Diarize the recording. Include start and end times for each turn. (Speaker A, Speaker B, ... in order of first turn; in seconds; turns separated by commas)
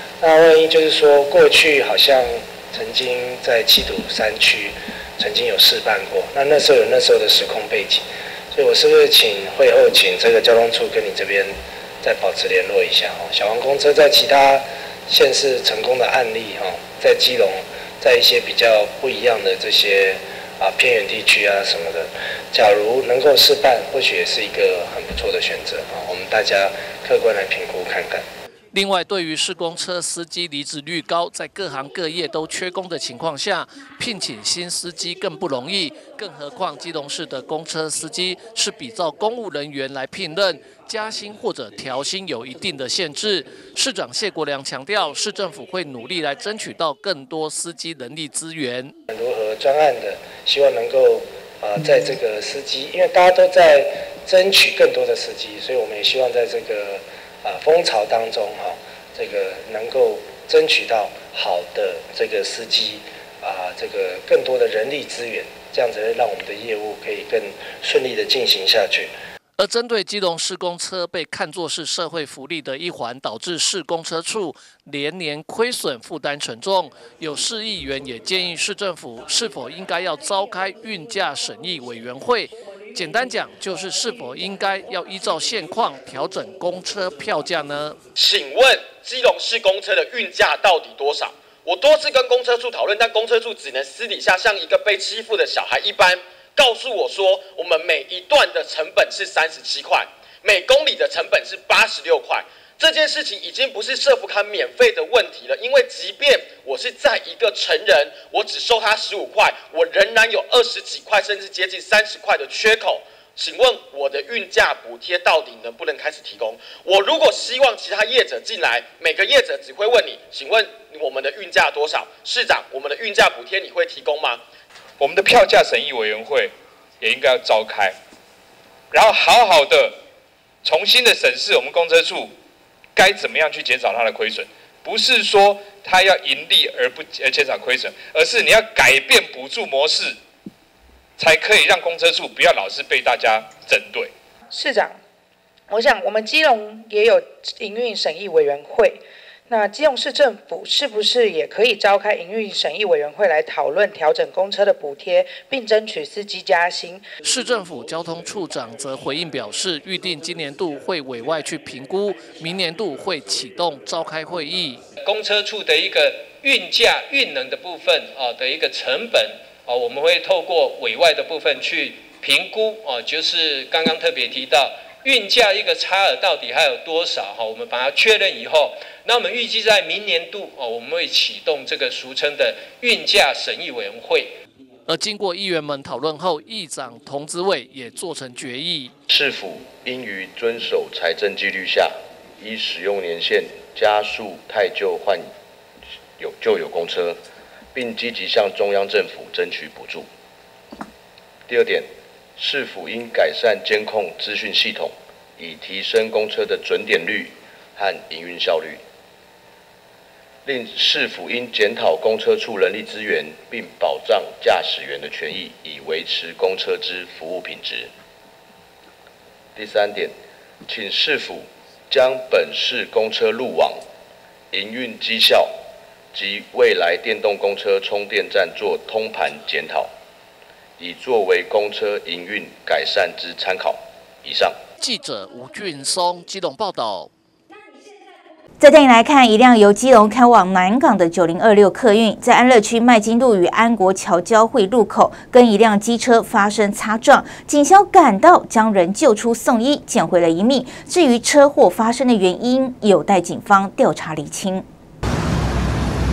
Speaker A: 0.2-28.2, Speaker B: 28.7-48.9, Speaker A: 49.1-69.1, Speaker B: 69.6-88.0, Speaker C: 88.2-124.4, Speaker D: 125.0-127.9, Speaker D: 128.9-129.9, Speaker D: 130.6-132.3, Speaker D: 133.0-140.1, Speaker D: 141.2-144.1, Speaker E: 144.5-144.9, Speaker E: 145.7-157.0, Speaker B: 157.2-164.8, Speaker F: 165.0-184.4, Speaker B: 184.9-188.9, Speaker G: 189.1-195.3, Speaker G: 196.2-197.2, Speaker G: 197.7-200.1, Speaker G: 201.5-208.8, Speaker G: 210.4-217.9, Speaker G: 219.5-220.1, Speaker G: 220.7-223.8, Speaker G: 224.5-225.5, Speaker G: 226.1-229.9, Speaker G: 230.8-234.6, Speaker B: 234.8-237.1, Speaker H: 238.6-254.6